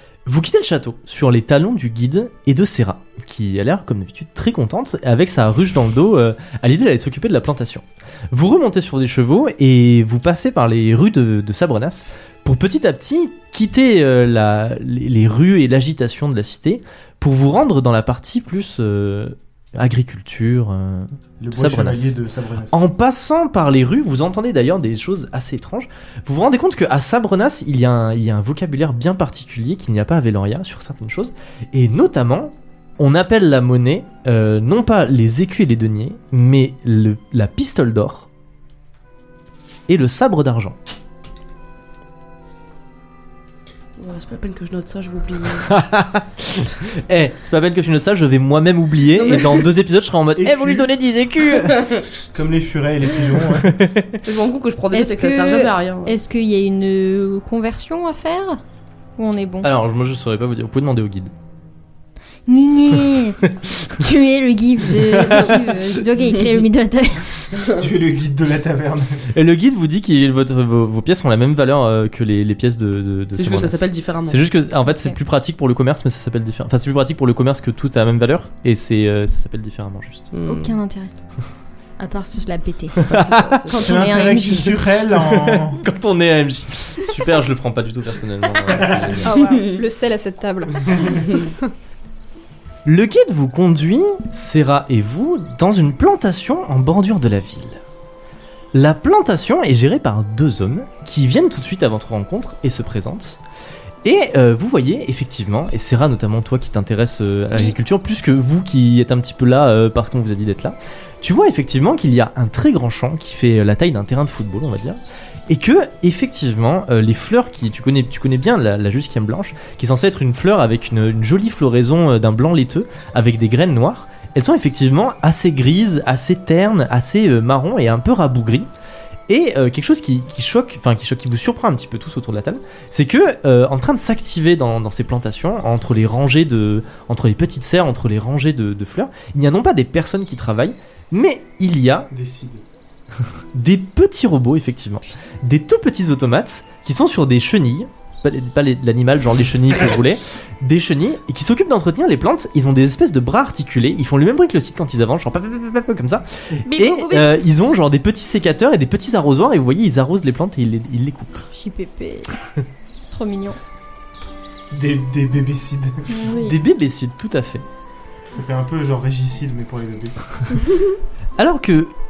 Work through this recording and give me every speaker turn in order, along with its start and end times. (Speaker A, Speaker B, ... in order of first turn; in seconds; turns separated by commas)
Speaker A: 0.2-22.1, Speaker B: 21.4-22.9, Speaker A: 22.7-38.3, Speaker A: 39.9-40.8, Speaker C: 44.0-45.7, Speaker A: 45.7-51.9, Speaker C: 49.1-49.7, Speaker B: 50.4-50.9, Speaker C: 51.7-52.0, Speaker B: 52.3-53.8, Speaker A: 53.6-54.2, Speaker C: 54.2-56.1, Speaker D: 54.9-58.6, Speaker D: 59.2-59.7, Speaker A: 59.6-61.3, Speaker D: 62.5-67.7, Speaker A: 65.1-65.6, Speaker B: 67.7-69.3, Speaker A: 69.3-80.3, Speaker C: 73.4-74.4, Speaker D: 74.8-75.1, Speaker C: 80.3-80.8, Speaker D: 80.5-81.1, Speaker D: 82.0-83.1, Speaker C: 83.0-84.1, Speaker A: 83.1-83.6, Speaker D: 83.7-84.8, Speaker B: 83.8-85.8, Speaker A: 85.1-89.3, Speaker B: 88.7-89.1, Speaker E: 89.2-91.5, Speaker C: 89.3-89.8, Speaker A: 92.8-97.8, Speaker A: 98.7-103.4, Speaker A: 104.0-128.7, Speaker A: 129.3-142.1, Speaker B: 142.1-142.6, Speaker A: 143.5-161.4, Speaker D: 156.7-157.3, Speaker D: 161.4-162.4, Speaker D: 163.1-163.6, Speaker B: 164.7-166.2, Speaker D: 166.1-166.6, Speaker A: 166.3-167.6, Speaker B: 168.3-170.2, Speaker A: 171.4-171.9